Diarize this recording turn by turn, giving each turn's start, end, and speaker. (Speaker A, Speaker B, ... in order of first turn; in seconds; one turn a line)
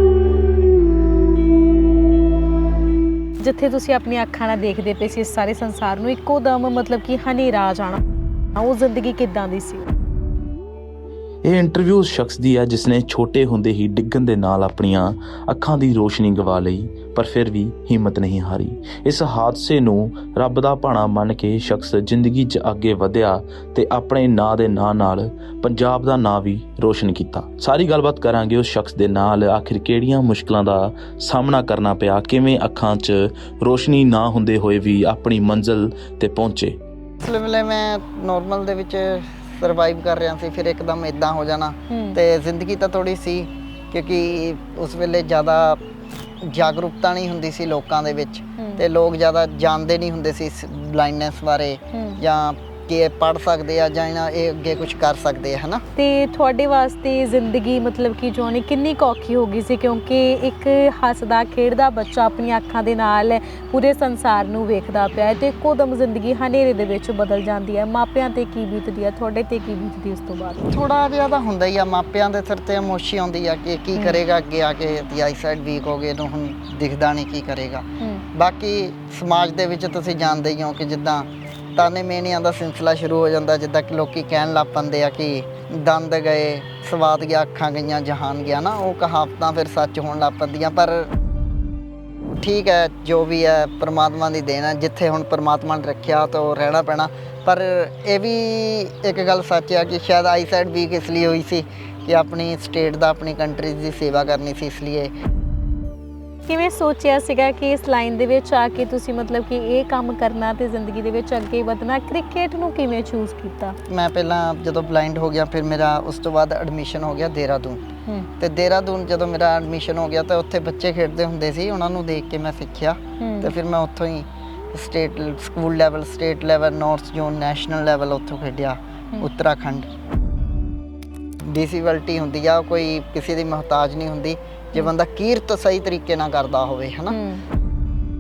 Speaker A: 3.4-8.0
Speaker A: 8.6-9.9
Speaker B: 11.4-36.8
Speaker C: 37.2-45.8
Speaker A: 41.9-42.2
Speaker C: 46.4-55.8
Speaker A: 48.6-48.8
Speaker A: 51.9-52.2
Speaker A: 56.0-70.6
Speaker C: 70.7-91.1
Speaker C: 92.4-105.1
Speaker A: 106.5-113.8
Speaker C: 113.9-117.8
Speaker C: 118.4-129.9
Speaker A: 123.2-123.5
Speaker C: 131.4-137.2
Speaker A: 137.1-137.4